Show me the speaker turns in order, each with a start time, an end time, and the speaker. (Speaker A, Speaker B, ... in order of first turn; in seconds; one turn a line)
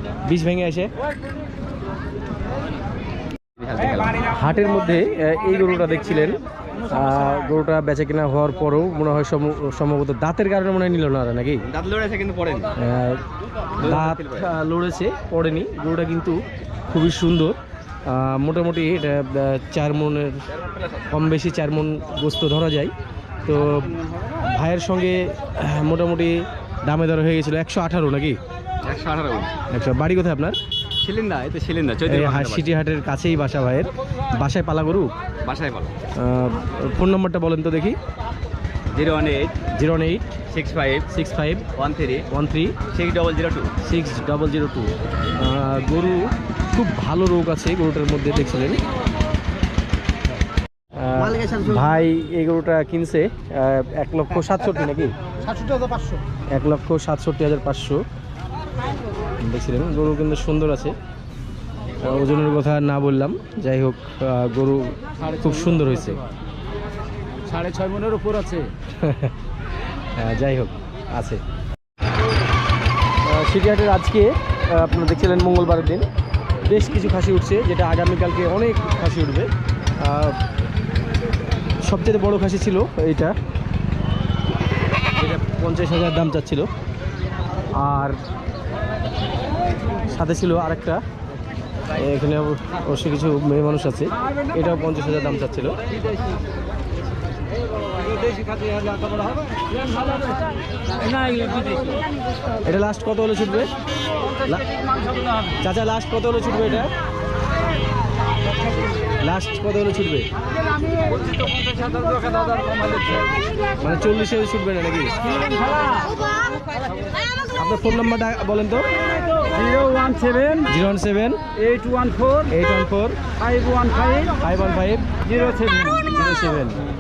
Speaker A: 0.2-0.9
Speaker B: 3.7-4.1
Speaker A: 4.2-11.7
Speaker C: 11.7-12.7
Speaker A: 12.8-13.2
Speaker A: 13.8-16.4
Speaker A: 16.9-17.5
Speaker A: 18.1-22.9
Speaker A: 23.5-24.0
Speaker A: 24.5-28.4
Speaker C: 28.8-29.5
Speaker A: 29.7-30.6
Speaker C: 31.0-32.7
Speaker A: 32.0-35.1
Speaker C: 35.5-35.9
Speaker A: 36.1-38.0
Speaker C: 38.9-39.6
Speaker A: 39.7-40.4
Speaker C: 40.5-41.0
Speaker A: 41.0-41.7
Speaker C: 41.8-42.2
Speaker A: 42.3-42.8
Speaker C: 42.9-43.7
Speaker A: 43.8-48.8
Speaker A: 51.0-55.1
Speaker A: 56.5-58.0
Speaker A: 59.4-61.0
Speaker A: 62.0-66.2
Speaker C: 67.5-68.7
Speaker B: 67.5-68.6
Speaker A: 69.0-69.3
Speaker A: 70.2-71.4
Speaker A: 73.2-76.1
Speaker A: 76.7-80.4
Speaker A: 81.8-83.3
Speaker A: 85.2-86.7
Speaker A: 87.8-88.2
Speaker A: 90.1-91.0
Speaker A: 91.9-95.8
Speaker B: 101.1-101.9
Speaker A: 102.7-103.7
Speaker A: 105.6-106.9
Speaker A: 109.2-110.3
Speaker B: 111.9-113.0
Speaker A: 113.8-115.3
Speaker B: 115.5-116.1
Speaker A: 117.5-118.9
Speaker B: 119.5-120.6
Speaker A: 120.5-121.7
Speaker B: 121.7-122.4
Speaker A: 122.4-123.2
Speaker B: 123.4-124.3
Speaker A: 124.4-125.1
Speaker B: 125.3-125.9
Speaker A: 125.8-126.8